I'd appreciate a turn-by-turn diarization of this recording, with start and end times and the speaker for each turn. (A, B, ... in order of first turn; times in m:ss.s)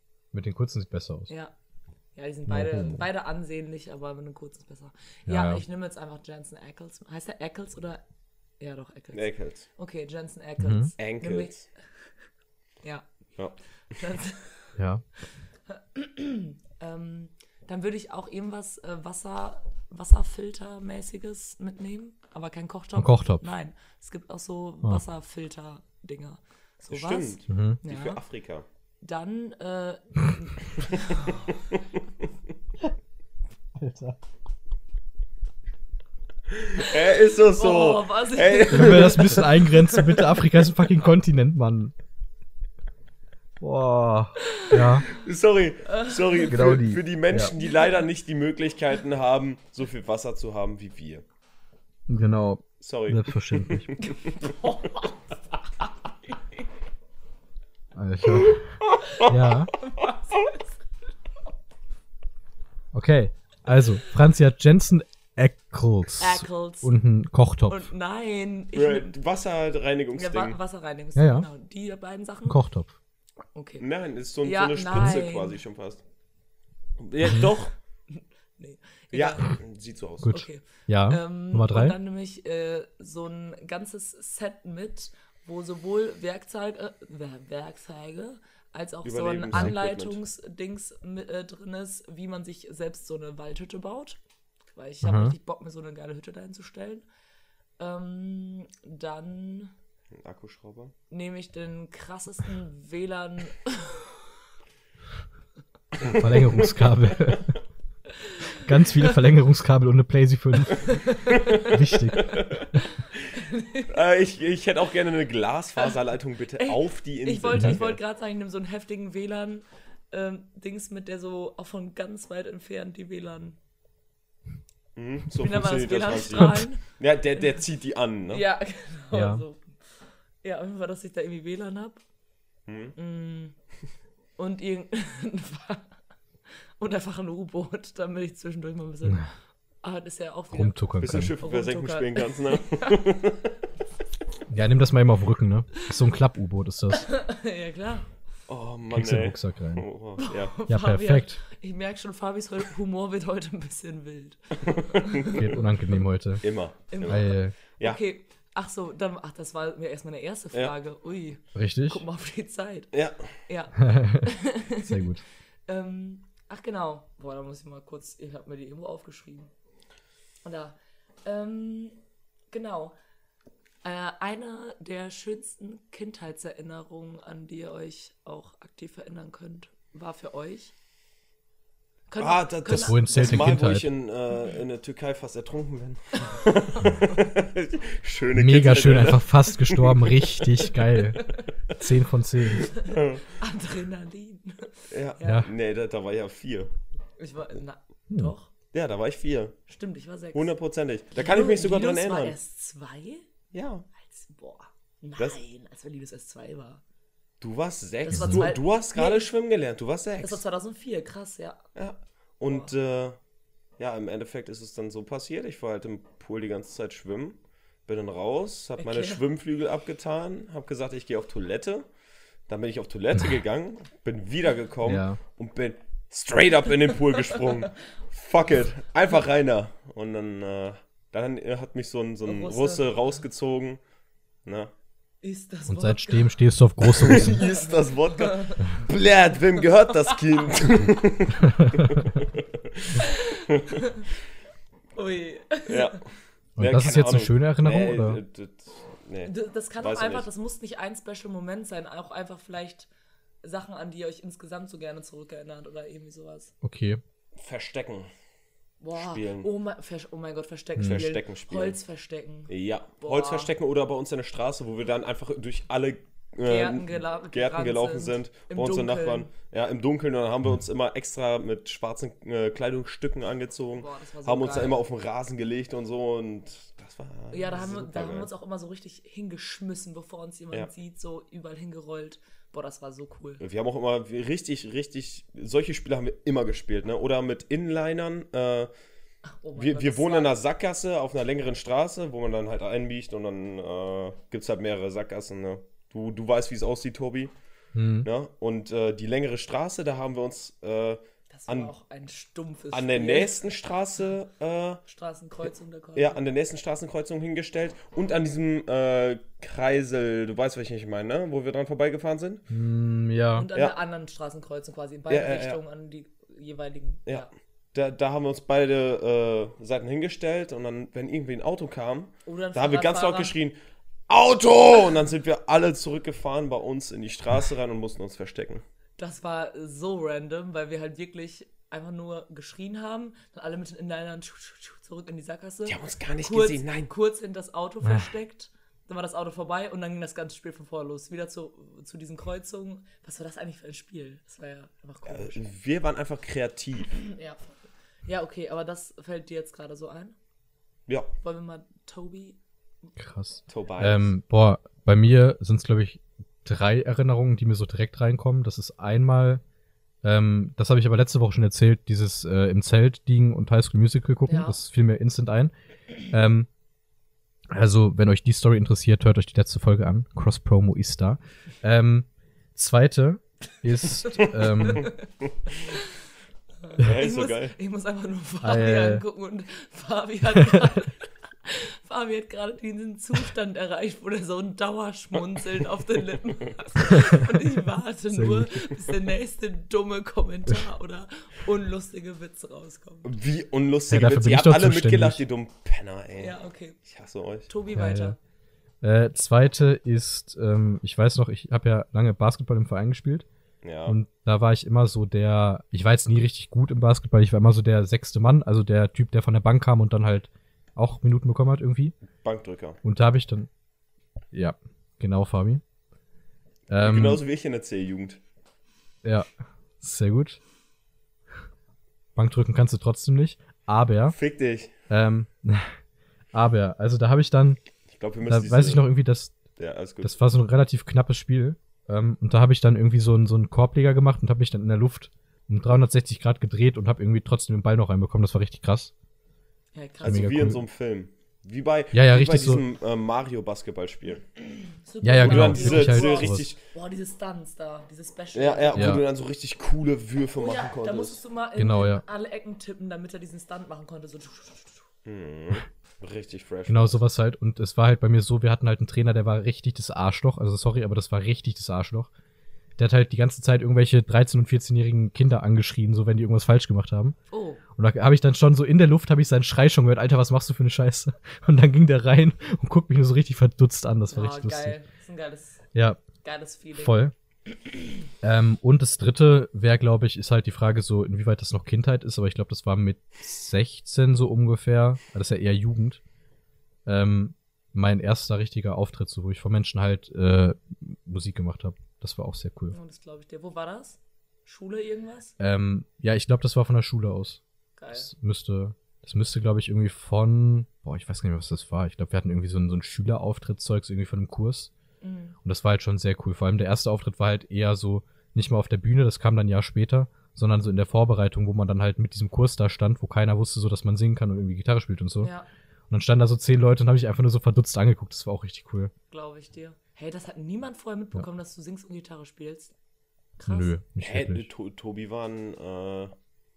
0:00.3-0:01.3 A
0:01.3-0:01.5 B
0:02.2-0:08.0 B
0:02.5-0:03.0 A
0:05.3-0:05.6 A
0:08.6-0:11.8 B
0:09.1-0:09.7 C
0:10.6-0:10.9 A
0:11.0-0:11.6 C
0:13.9-0:14.8 B
0:14.8-0:15.0 A
0:15.7-0:28.2 B
0:23.0-0:23.4 A
0:26.9-0:28.6 C
0:27.5-0:27.8 A
0:29.0-0:31.5 B
0:30.9-0:31.8 C
0:33.7-0:34.2 A
0:36.5-0:39.4 C
0:36.8-0:40.6 B
0:38.7-0:41.9 A
0:43.6-0:45.0 A
0:44.5-0:44.9 B
0:45.0-0:51.2 C
0:45.9-0:46.6 B
0:46.5-0:47.5 A
0:47.5-0:48.0 B
0:52.1-0:53.9 A
0:52.8-0:54.5 C
0:54.2-0:56.6 B
0:57.9-0:59.7 A
0:58.8-0:59.3 C
0:59.8-1:00.7 B
1:02.9-1:07.9 A
1:06.2-1:07.0 B
1:07.7-1:09.1 B
1:08.7-1:10.6 C
1:10.1-1:12.6 B
1:11.2-1:11.5 A
1:12.4-1:12.9 A
1:13.5-1:13.8 B
1:13.8-1:16.0 C
1:14.4-1:15.6 B
1:14.9-1:15.2 A
1:17.0-1:17.7 C
1:18.1-1:19.6 B
1:19.1-1:20.4 C
1:20.2-1:22.0 A
1:20.3-1:34.2 B
1:29.0-1:30.2 C
1:34.7-1:37.0 B
1:35.0-1:35.3 A
1:37.8-1:39.7 B
1:40.2-1:40.9 C
1:41.1-1:44.3 B
1:46.0-1:47.3 C
1:46.0-1:47.6 A
1:48.4-1:49.1 B
1:48.5-1:52.8 A
1:51.0-1:51.7 B
1:51.3-1:51.6 C
1:52.2-1:52.7 C
1:53.3-1:53.9 B
1:53.9-1:58.0 C
1:56.6-2:03.6 B
1:57.5-1:57.8 A
2:05.0-2:08.4 C
2:05.4-2:06.8 B
2:06.4-2:06.6 A
2:08.3-2:12.0 B
2:09.1-2:09.4 A
2:12.7-2:12.9 C
2:13.0-2:13.6 B
2:14.4-2:23.0 B
2:20.5-2:21.3 A
2:21.0-2:23.5 C
2:24.5-2:27.1 A
2:26.9-2:28.2 B
2:28.5-2:30.5 C
2:28.9-2:29.9 A
2:30.2-2:35.4 B
2:30.7-2:31.4 A
2:34.6-2:35.6 C
2:35.3-2:37.6 A
2:36.4-2:38.0 C
2:36.9-2:45.2 B
2:41.5-2:42.0 A
2:42.9-2:43.4 C
2:43.8-2:44.3 A
2:44.8-2:45.2 A
2:45.7-2:49.5 B
2:50.4-2:52.0 B
2:52.5-2:52.9 B
2:53.8-3:00.7 B
3:02.1-3:03.5 B
3:02.2-3:11.0 C
3:02.7-3:03.9 A
3:06.3-3:06.9 B
3:08.3-3:12.7 A
3:12.5-3:13.4 C
3:13.4-3:15.5 B
3:14.9-3:16.7 C
3:15.2-3:15.5 A
3:17.2-3:18.5 B
3:18.7-3:19.6 C
3:19.7-3:20.5 B
3:20.3-3:22.4 C
3:21.1-3:23.2 B
3:23.5-3:23.8 C
3:24.0-3:26.8 B
3:27.4-3:30.4 C
3:28.1-3:29.3 B
3:28.1-3:28.5 A
3:30.2-3:31.7 B
3:31.7-3:33.2 C
3:33.8-3:41.9 C
3:38.8-3:39.2 B
3:42.4-3:53.8 C
3:44.8-3:45.2 A
3:52.2-3:52.9 B
3:54.4-3:54.7 C
3:55.2-3:56.4 B
3:55.7-3:57.4 A
3:56.8-4:03.8 C
3:57.0-3:58.8 B
4:01.6-4:01.8 A
4:03.0-4:04.0 B
4:04.9-4:06.0 B
4:05.6-4:10.2 C
4:06.6-4:08.2 A
4:09.2-4:12.9 B
4:13.4-4:16.5 B
4:16.6-4:17.0 A
4:17.4-4:18.1 C
4:18.8-4:23.5 B
4:18.9-4:19.5 C
4:20.8-4:21.8 C
4:22.5-4:38.3 C
4:26.4-4:29.3 B
4:33.7-4:34.8 B
4:37.3-4:43.4 B
4:43.4-4:48.7 C
4:49.3-4:50.4 B
4:49.6-4:57.3 C
4:57.7-4:58.1 A
4:58.0-5:01.7 C
5:01.3-5:03.3 B
5:02.7-5:04.8 C
5:04.9-5:06.2 B
5:05.9-5:12.4 C
5:12.5-5:13.5 A
5:13.3-5:17.3 B
5:15.1-5:15.6 C
5:17.0-5:28.6 C
5:22.2-5:23.3 B
5:29.0-5:45.4 B
5:35.6-5:36.9 C
5:37.8-5:38.1 A
5:45.0-5:47.0 C
5:47.0-5:50.1 B
5:51.2-5:52.4 B
5:53.0-5:59.4 A
5:53.5-5:54.1 C
6:00.0-6:05.5 A
6:04.3-6:04.6 B
6:06.1-6:06.5 A
6:07.5-6:14.9 A
6:14.0-6:14.9 B
6:14.0-6:15.3 C
6:15.5-6:15.9 B
6:16.6-6:33.1 B
6:16.8-6:17.5 C
6:18.4-6:19.0 A
6:20.3-6:20.8 A
6:28.1-6:28.5 A
6:33.0-6:37.5 C
6:33.9-6:35.2 A
6:36.2-6:36.8 B
6:37.5-6:38.2 B
6:37.7-6:38.2 A
6:38.8-6:43.2 A
6:43.6-6:44.0 C
6:43.8-6:52.0 A
6:52.2-6:52.8 C
6:52.8-6:53.5 A
6:54.3-6:55.6 A
6:56.7-6:57.2 A
6:56.8-6:58.2 C
6:59.0-7:00.4 A
7:02.2-7:04.2 A
7:04.1-7:04.7 C
7:04.9-7:05.8 A
7:06.3-7:07.6 A
7:07.9-7:08.9 C
7:08.2-7:09.4 A
7:09.6-7:10.1 C
7:10.0-7:18.9 A
7:19.7-7:20.3 B
7:20.0-7:24.2 C
7:20.0-7:20.6 A
7:21.9-7:22.6 A
7:24.4-7:29.0 B
7:25.0-7:26.4 A
7:25.2-7:26.6 C
7:28.3-7:31.2 C
7:28.7-7:29.0 A
7:30.4-7:34.8 B
7:31.6-7:32.0 A
7:35.0-7:37.0 C
7:36.7-7:42.1 A
7:42.8-7:47.2 A
7:47.3-7:47.6 B
7:47.8-7:54.8 A
7:54.1-7:55.6 B
7:55.7-7:56.0 A
7:56.2-7:58.0 B
7:56.7-7:57.1 A
7:58.2-8:06.0 A
8:06.8-8:12.8 A
8:12.7-8:15.3 B
8:15.4-8:24.7 A
8:17.8-8:18.1 B
8:25.0-8:25.4 B
8:25.4-8:35.3 A
8:35.2-8:35.5 B
8:35.9-8:38.9 A
8:39.1-8:42.7 B
8:43.4-8:43.7 B
8:43.4-8:44.4 A
8:44.0-8:46.1 C